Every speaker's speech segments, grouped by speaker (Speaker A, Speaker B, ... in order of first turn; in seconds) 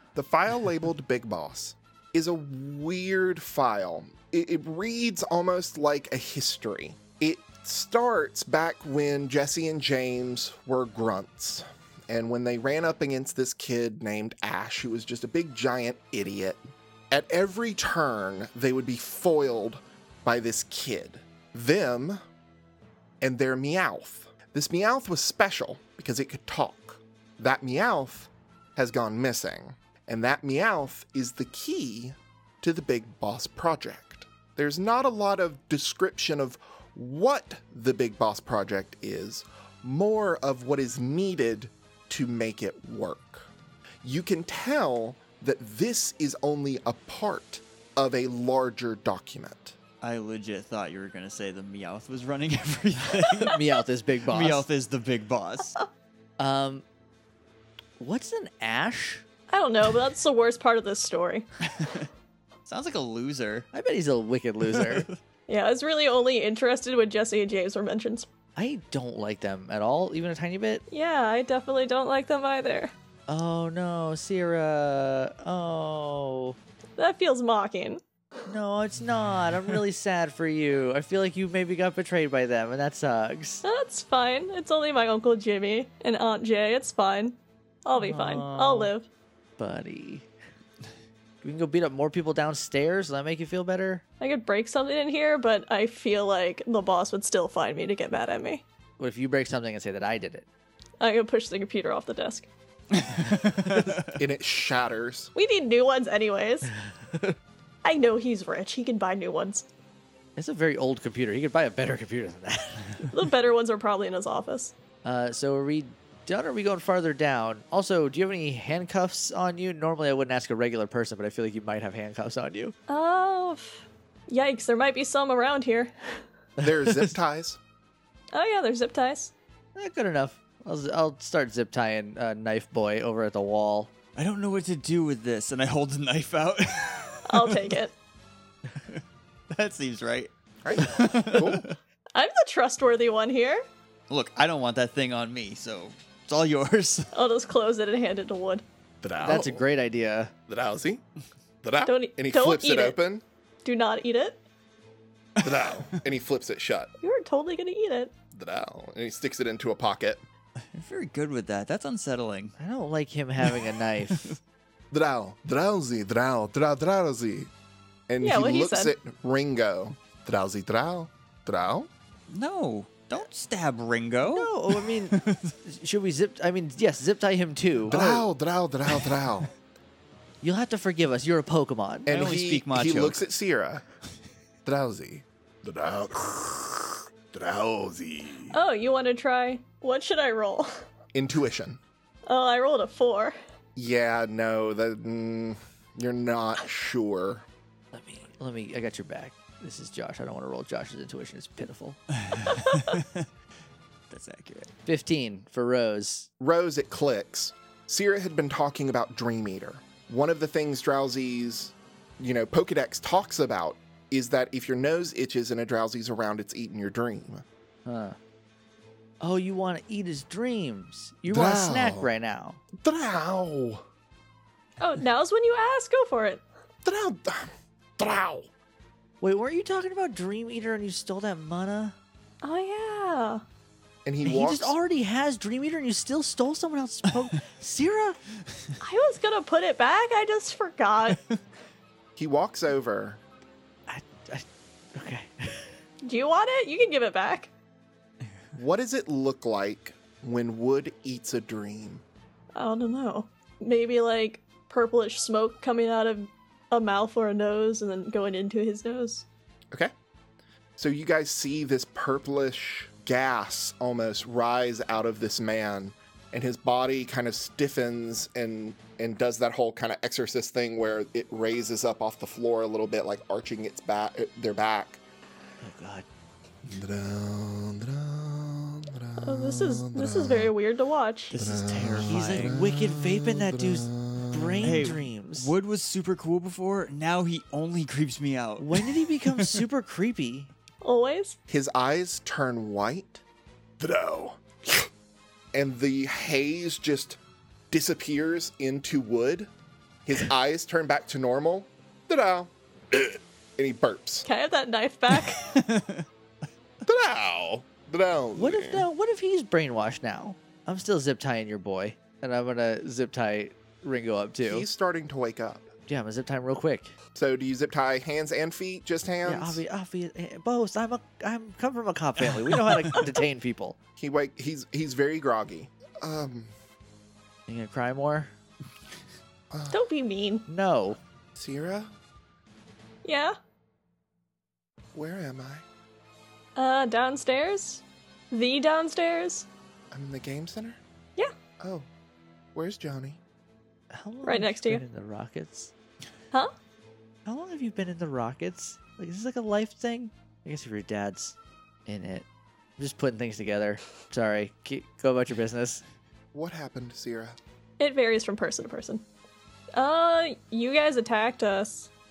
Speaker A: 0.1-22.2, 23.2-43.5, 44.0-49.7, 104.2-105.3, 126.6-127.6, 140.6-141.7, 149.0-149.6, 150.5-151.0, 151.6-153.2, 155.4-156.9, 158.3-160.2, 164.9-167.5, 168.1-171.9, 177.9-179.5, 182.1-183.8, 184.6-188.6, 191.1-191.8, 193.8-197.4, 206.4-217.4, 221.3-222.1, 222.8-223.8, 226.8-228.5, 234.0-234.7, 242.2-243.2, 248.5-252.0, 260.8-275.0, 276.6-280.5, 281.3-284.9, 291.5-293.2, 293.8-294.9, 295.5-297.2, 297.7-299.5, 300.1-304.3, 306.8-308.9, 314.4-315.7, 317.1-319.6, 324.0-326.5, 329.5-329.8, 331.3-331.9, 334.9-335.6, 339.9-340.8, 341.6-341.9, 342.5-343.2, 356.3-357.4
Speaker B: 50.0-53.6, 54.3-55.8, 61.7-62.0, 62.6-63.7, 64.7-65.1, 102.9-104.2, 134.2-137.7, 138.8-141.8, 144.1-147.1, 160.7-162.5, 163.4-164.4, 172.3-175.5, 177.9-178.2, 178.9-179.2, 182.1-183.2, 202.1-203.2, 204.1-204.7, 281.3-282.6, 284.6-289.6, 305.2-306.1, 322.5-323.0
Speaker C: 53.4-54.6, 56.4-56.8, 58.0-59.2, 63.7-65.1, 68.5-70.8, 73.3-76.5, 78.5-83.6, 88.0-88.9, 89.6-90.3, 91.4-94.0, 99.0-100.5, 103.6-103.9, 106.9-107.4, 110.4-113.0, 115.0-122.7, 126.6-127.1, 129.7-133.9, 149.2-150.3, 162.6-164.3, 174.2-178.2, 180.4-182.1, 197.9-202.0, 204.8-206.3, 217.8-218.2, 219.2-222.6, 229.2-231.9, 234.2-238.2, 243.9-245.7, 275.6-276.1, 282.0-285.5, 288.6-290.5, 308.3-314.6, 315.9-316.9, 319.2-323.8, 327.5-328.3, 330.5-331.0, 343.9-345.7, 347.2-352.2, 352.8-355.8
Speaker D: 59.5-61.5, 65.5-68.3, 70.9-72.9, 77.0-78.0, 83.6-89.1, 94.2-98.6, 101.0-102.5, 105.3-106.7, 107.8-109.7, 113.1-114.7, 122.9-126.2, 128.3-129.3, 137.3-137.9, 142.1-143.6, 147.1-148.6, 151.8-153.0, 153.6-154.4, 157.0-158.1, 168.2-168.9, 188.5-190.7, 192.3-193.3, 224.8-226.4, 232.4-233.4, 238.8-241.2, 246.0-247.5, 252.5-259.2, 279.2-281.3, 290.8-291.4, 304.2-305.5, 329.7-330.4, 333.0-333.4, 336.6-339.5, 344.2-344.8, 357.8-359.0, 359.7-361.9